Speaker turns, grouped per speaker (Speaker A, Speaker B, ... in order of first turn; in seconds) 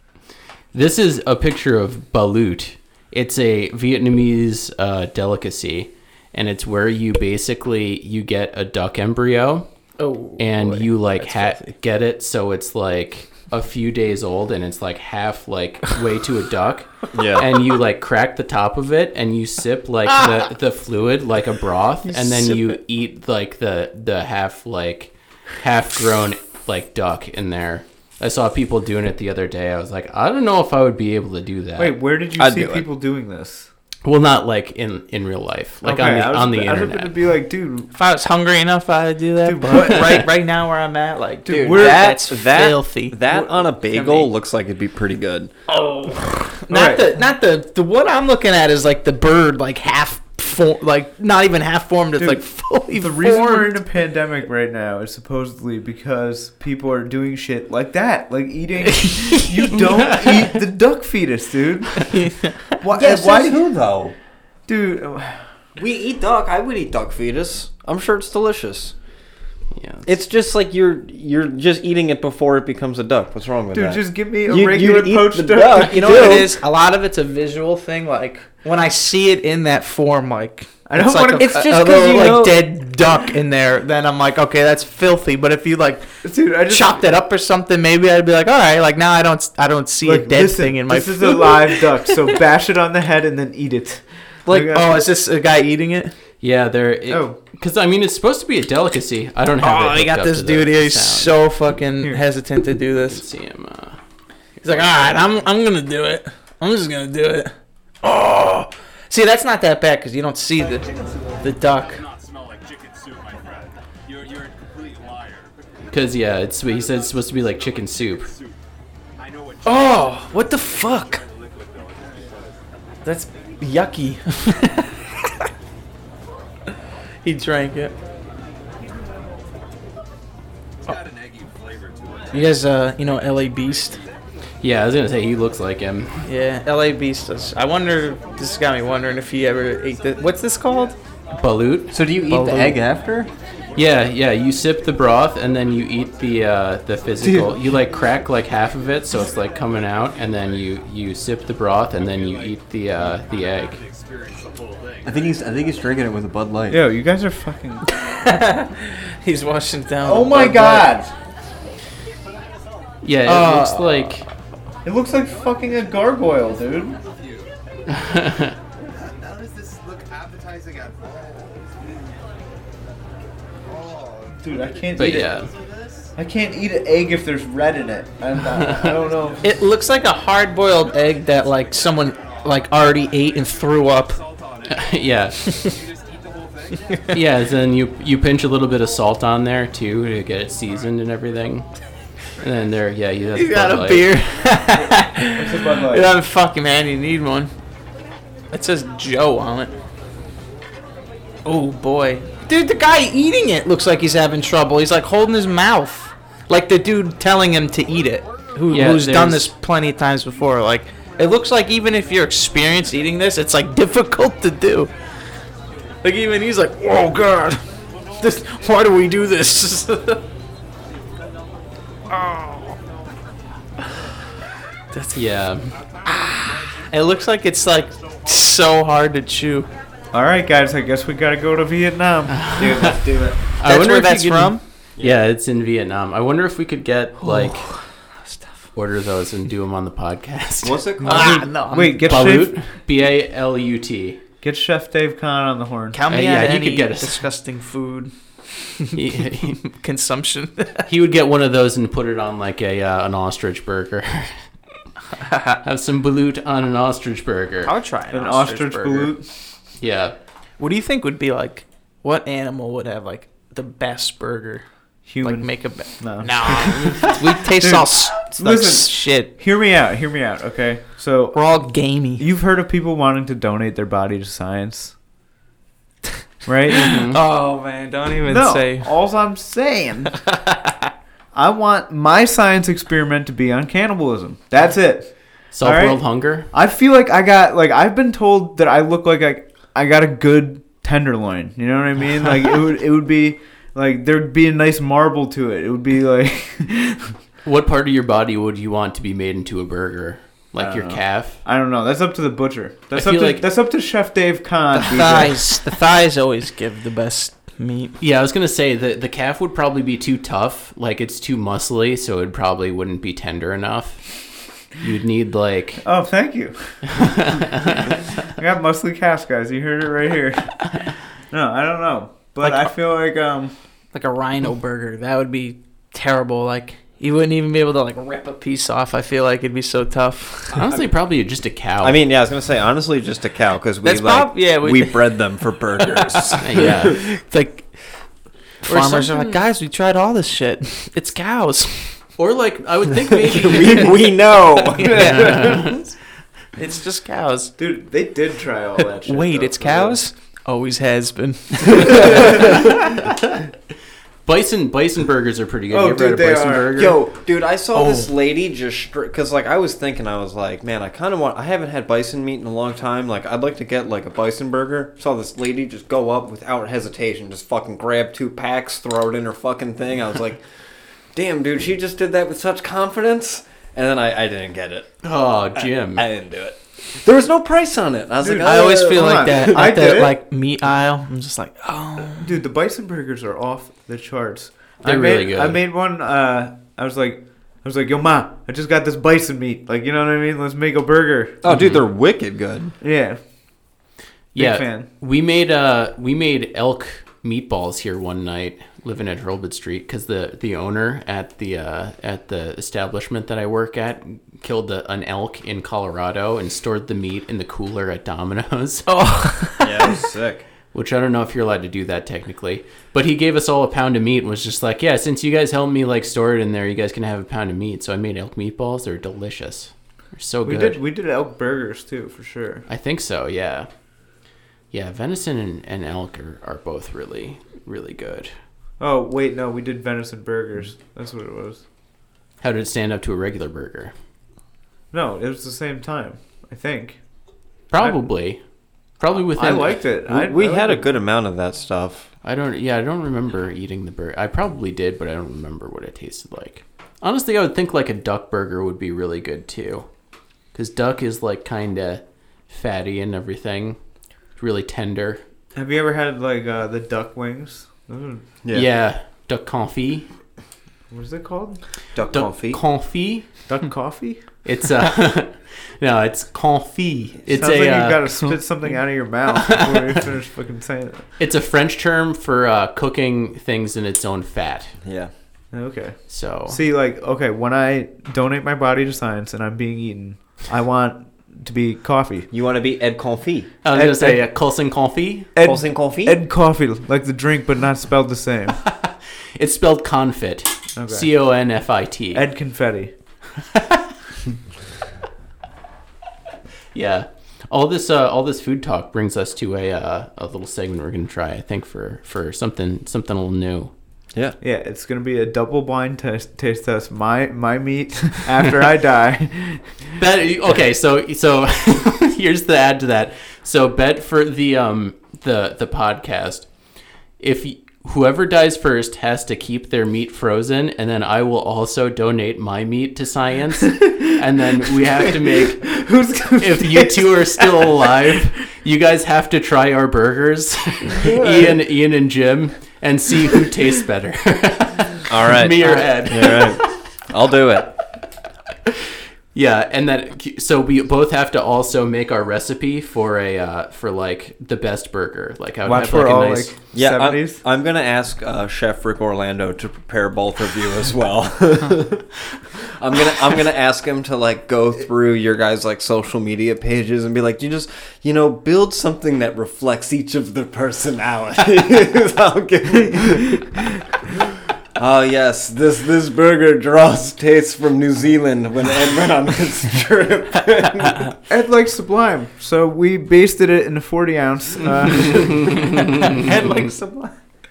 Speaker A: 0.7-9.7, 10.4-32.0, 34.0-37.2, 60.2-60.5, 69.7-70.1, 96.4-101.4, 103.0-104.0, 115.9-118.3, 134.6-136.2, 141.3-142.0, 143.7-153.8, 163.0-164.2, 167.9-168.6, 174.9-175.5, 178.5-179.1, 184.7-185.6, 187.1-191.7, 192.4-194.1, 208.7-209.5, 225.1-225.7, 232.3-237.7, 238.7-241.1, 242.0-244.2, 246.1-247.2, 248.9-249.6, 250.9-254.4, 255.6-257.7, 259.8-260.1, 276.8-277.2, 285.5-286.5, 297.4-301.4, 302.9-303.5, 308.0-315.8, 316.9-317.9, 330.5-332.0, 336.4-337.0, 338.6-339.4, 342.2-345.9, 354.2-356.9, 375.0-376.0, 384.8-385.6, 391.5-391.8, 394.3-408.9, 410.7-420.8, 422.7-423.7, 424.7-428.3, 432.4-433.9, 437.7-438.4, 439.0-439.9, 442.2-449.9, 450.5-453.8, 454.4-455.2, 458.5-460.1, 462.1-463.2, 464.4-468.4, 469.3-470.0, 471.2-474.7, 476.1-476.6, 483.6-485.3, 489.3-492.2, 493.5-493.8, 496.7-503.7, 509.9-516.5, 517.2-525.8, 526.4-536.7, 539.3-546.5, 575.1-575.8
Speaker B: 10.0-11.7, 20.1-20.4, 22.0-22.7, 37.9-43.2, 43.9-44.3, 45.7-53.8, 62.1-62.7, 75.8-86.1, 86.7-91.8, 94.5-96.1, 99.6-103.2, 104.6-110.8, 111.4-112.0, 119.6-121.2, 123.0-125.1, 127.2-127.9, 132.3-134.0, 136.2-141.0, 142.3-142.8, 157.9-160.9, 163.2-164.1, 179.4-184.2, 185.4-185.8, 193.3-197.5, 198.5-199.7, 201.4-214.9, 216.0-217.6, 218.2-220.2, 222.1-222.8, 224.9-225.2, 226.0-229.7, 233.6-234.6, 237.2-238.7, 241.0-242.4, 245.9-248.1, 248.8-250.9, 255.1-255.6, 257.6-259.1, 260.6-264.6, 265.2-269.4, 271.3-272.2, 276.7-278.9, 280.1-280.7, 304.7-308.0, 323.9-330.6, 333.8-335.3, 335.8-337.7, 338.6-342.0, 346.6-347.5, 348.8-352.3, 357.7-358.1, 378.4-382.4, 408.9-410.0, 575.7-577.1
Speaker C: 17.1-17.5, 32.4-32.9, 41.5-45.5, 62.9-64.1, 65.8-68.9, 70.0-76.5, 81.4-82.8, 141.9-143.3, 147.2-147.6, 155.1-156.8, 240.6-241.5, 330.5-330.9, 331.8-337.0, 343.1-345.4, 356.7-370.4, 371.1-374.9, 375.6-380.0, 391.4-392.7, 409.6-410.4, 440.1-442.1, 458.4-458.7, 461.9-462.6, 474.8-475.1, 482.3-483.5, 485.4-486.2, 535.1-537.8, 546.7-552.1, 552.6-563.5, 564.7-571.1
Speaker D: 31.8-33.7, 35.8-37.9, 39.4-40.3, 41.4-42.2, 46.7-47.1, 52.2-62.1, 62.7-63.8, 64.7-65.5, 73.7-76.5, 80.8-82.4, 86.2-87.1, 90.0-95.0, 97.1-97.4, 156.7-157.8, 160.0-161.1, 164.8-167.0, 174.3-175.3, 176.2-179.4, 194.7-196.1, 230.1-233.4, 241.1-242.7, 244.4-246.0, 258.1-259.3, 265.1-271.5, 272.2-274.9, 276.4-277.0, 278.3-280.2, 281.3-297.1, 300.6-305.6, 315.8-323.5, 344.9-345.7, 347.6-350.0, 351.9-352.6, 355.7-356.8, 378.2-380.2, 382.2-391.4, 392.8-393.2, 394.4-394.9, 420.4-422.6, 428.8-431.6, 434.9-437.0, 437.8-438.0, 439.4-441.0, 455.5-458.2, 460.9-461.6, 463.5-464.2, 467.3-471.0, 475.5-482.3, 483.7-484.2, 485.3-488.6, 490.8-491.1, 492.1-492.9, 504.4-509.8, 524.6-528.1, 530.9-531.6, 545.6-547.4, 571.3-575.7
Speaker E: 110.7-115.5, 119.2-119.6, 121.6-122.4, 131.4-132.3, 154.0-155.0, 167.0-167.5, 169.0-171.7, 173.7-174.6, 175.3-175.9, 185.8-186.7